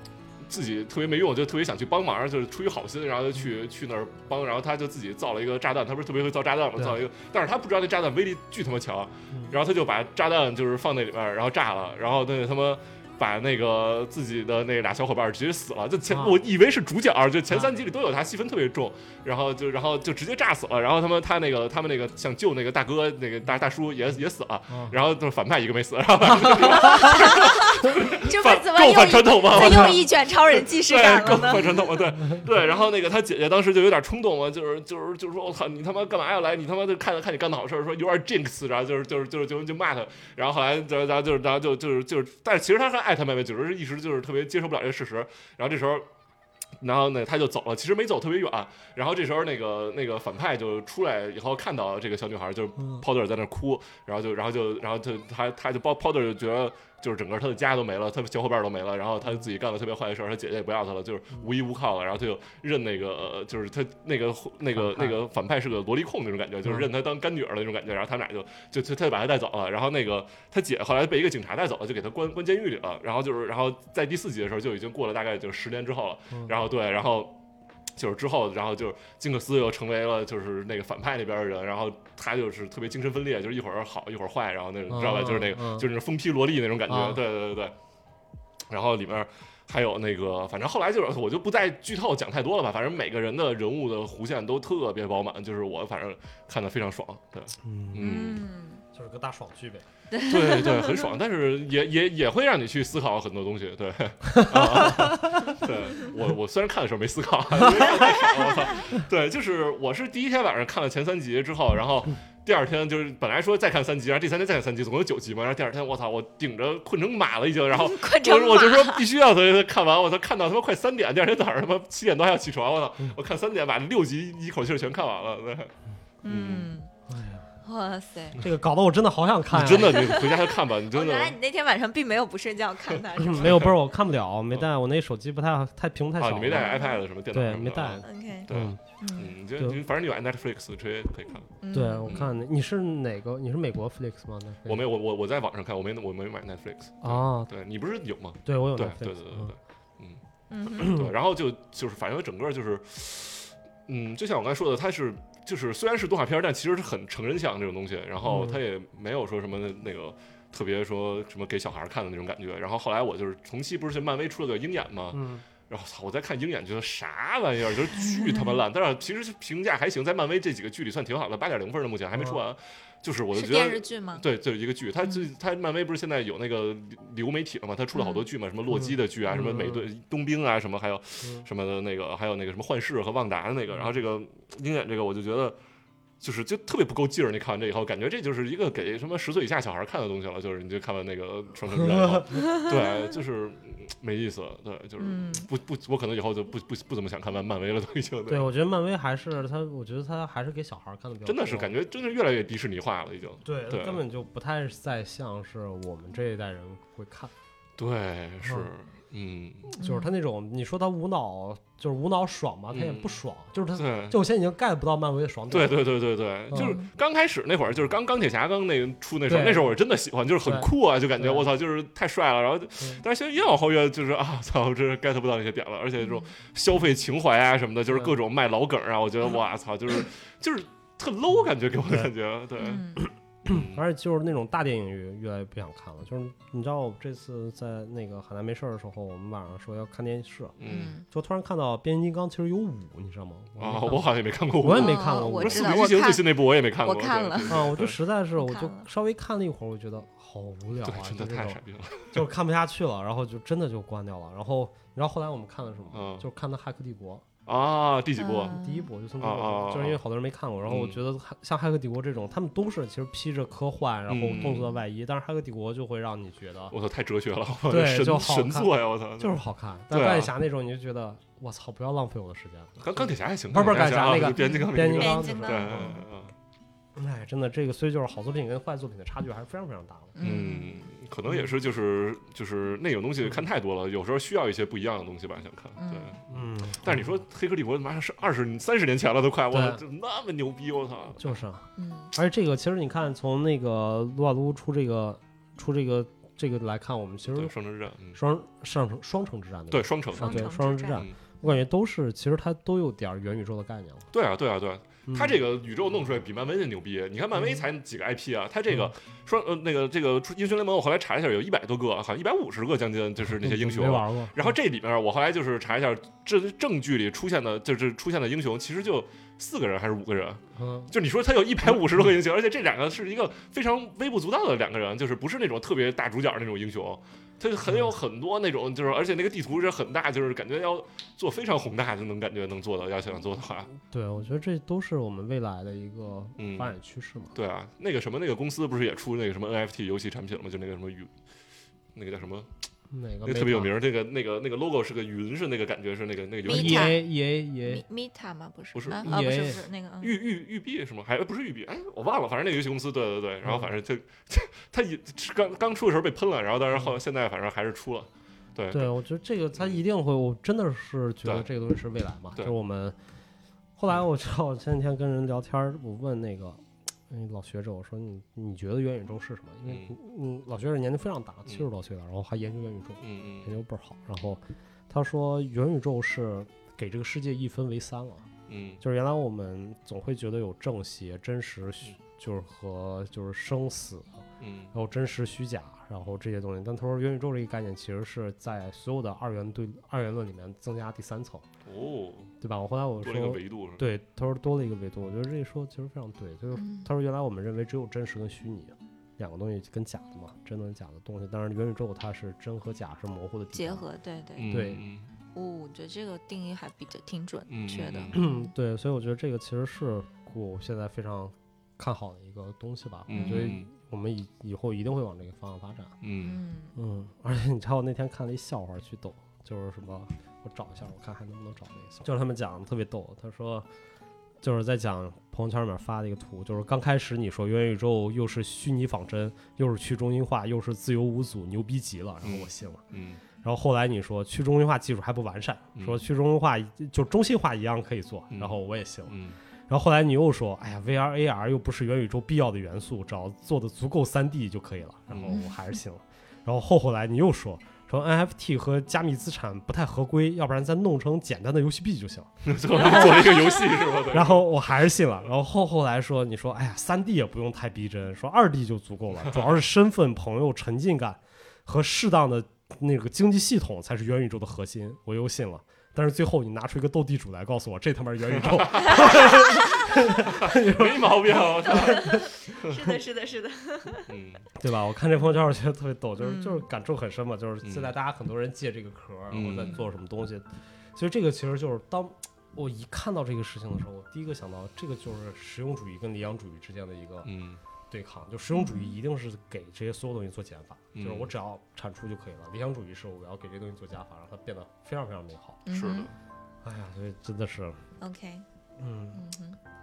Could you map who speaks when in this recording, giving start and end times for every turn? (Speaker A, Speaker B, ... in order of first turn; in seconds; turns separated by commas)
Speaker A: 0.4-46.1, Speaker B: 16.1-16.4, Speaker B: 24.7-24.9, Speaker B: 26.4-27.1, Speaker C: 26.5-31.8, Speaker B: 29.6-29.9, Speaker A: 46.8-77.4, Speaker B: 64.8-65.2, Speaker A: 77.9-87.8, Speaker B: 84.9-85.9, Speaker B: 86.9-87.2, Speaker A: 88.7-98.4, Speaker B: 97.6-98.1, Speaker C: 98.0-98.8, Speaker B: 98.9-99.8, Speaker C: 100.1-101.1, Speaker A: 100.2-125.7, Speaker B: 104.3-105.5, Speaker C: 107.8-108.7, Speaker C: 117.7-119.0, Speaker C: 126.2-126.9, Speaker A: 126.3-126.7, Speaker B: 127.1-127.5, Speaker C: 127.6-128.4, Speaker B: 128.4-130.1, Speaker A: 129.5-131.4, Speaker C: 129.9-133.7, Speaker B: 133.2-136.7, Speaker A: 133.4-133.7, Speaker A: 136.2-141.5, Speaker C: 136.5-137.0, Speaker B: 137.3-138.8, Speaker C: 138.0-139.4, Speaker C: 141.6-142.2, Speaker B: 141.7-144.8, Speaker A: 142.1-142.3, Speaker A: 144.7-150.2, Speaker B: 147.0-147.5, Speaker B: 148.4-149.6, Speaker C: 150.5-151.0, Speaker A: 150.8-185.6, Speaker B: 158.2-158.6, Speaker B: 165.1-165.4, Speaker C: 168.1-168.4, Speaker C: 173.3-174.2, Speaker C: 177.9-178.3, Speaker B: 178.7-179.9, Speaker B: 181.2-181.5, Speaker A: 186.2-198.5, Speaker B: 191.8-192.3, Speaker C: 192.4-193.0, Speaker C: 195.0-195.5, Speaker B: 198.3-201.7, Speaker A: 201.2-204.0, Speaker B: 203.4-207.3, Speaker A: 207.8-209.7, Speaker B: 208.4-208.7, Speaker B: 209.7-215.9, Speaker C: 209.8-210.1, Speaker A: 212.7-213.2, Speaker A: 213.7-214.2, Speaker A: 215.5-232.9, Speaker B: 216.5-216.8, Speaker C: 216.5-216.9, Speaker B: 219.3-219.8, Speaker B: 220.4-221.5, Speaker B: 222.8-223.0, Speaker C: 226.0-226.3, Speaker C: 232.6-233.0, Speaker B: 233.0-240.6, Speaker A: 233.5-233.8, Speaker A: 240.6-241.0, Speaker C: 240.7-241.1, Speaker B: 241.1-245.8, Speaker A: 243.6-247.9, Speaker C: 244.7-247.7, Speaker B: 247.5-251.6, Speaker C: 248.4-248.9, Speaker A: 250.8-252.2, Speaker B: 252.1-257.2, Speaker A: 255.9-256.3, Speaker A: 257.5-258.6, Speaker C: 258.2-258.9, Speaker B: 258.5-266.8, Speaker A: 259.2-260.0, Speaker A: 260.6-261.0, Speaker A: 264.1-264.7, Speaker A: 266.7-269.4, Speaker B: 267.7-276.0, Speaker A: 269.9-270.3, Speaker A: 272.8-276.3, Speaker C: 274.2-276.0, Speaker B: 277.0-280.1, Speaker C: 280.2-280.9, Speaker A: 280.2-286.2, Speaker C: 285.8-286.1, Speaker B: 286.3-287.1, Speaker A: 286.7-291.4, Speaker B: 289.5-289.8, Speaker B: 291.2-297.6, Speaker C: 291.8-292.1, Speaker A: 297.3-298.2, Speaker B: 298.1-304.1, Speaker A: 299.7-301.1, Speaker C: 300.2-301.6, Speaker A: 304.1-333.7, Speaker B: 305.1-305.4, Speaker B: 313.2-314.6, Speaker B: 320.6-320.9, Speaker B: 327.7-327.9, Speaker B: 333.9-337.3, Speaker A: 336.4-336.7, Speaker A: 337.3-341.1, Speaker A: 341.9-342.5, Speaker B: 342.9-343.7, Speaker A: 343.2-347.0, Speaker C: 346.5-347.0, Speaker B: 346.5-347.8, Speaker C: 347.6-350.2, Speaker A: 348.8-358.9, Speaker B: 348.9-349.6, Speaker B: 358.7-363.0, Speaker B: 363.8-378.3, Speaker A: 369.7-369.9, Speaker A: 373.0-373.6, Speaker A: 378.5-378.8, Speaker B: 378.8-391.5, Speaker A: 384.4-384.7, Speaker A: 391.6-392.3, Speaker B: 392.4-403.9, Speaker A: 393.0-393.9, Speaker C: 396.6-396.9, Speaker C: 403.5-404.6, Speaker A: 404.4-405.1, Speaker B: 404.5-404.8, Speaker C: 405.4-408.4, Speaker A: 407.5-408.1, Speaker B: 408.1-416.0, Speaker A: 413.1-413.7, Speaker C: 413.1-413.6, Speaker A: 416.0-416.4, Speaker C: 416.2-416.8, Speaker B: 416.8-423.7, Speaker B: 424.4-432.8, Speaker A: 432.2-433.2, Speaker B: 433.4-439.2, Speaker A: 435.8-436.0, Speaker A: 438.3-439.4, Speaker B: 439.7-453.6, Speaker C: 445.3-445.6, Speaker A: 452.4-454.5, Speaker C: 452.8-453.8, Speaker B: 454.1-472.2, Speaker A: 468.3-473.0, Speaker C: 468.8-469.8, Speaker C: 471.7-474.1, Speaker A: 474.1-474.5, Speaker B: 474.6-487.3, Speaker C: 476.2-476.6, Speaker A: 477.6-477.9, Speaker A: 479.3-479.8, Speaker A: 487.2-487.6, Speaker B: 487.9-495.6, Speaker C: 488.5-489.0, Speaker A: 490.9-491.3, Speaker C: 495.7-496.1, Speaker A: 495.7-496.1, Speaker B: 496.6-497.8, Speaker C: 498.0-498.4, Speaker B: 498.8-499.2, Speaker C: 499.1-499.6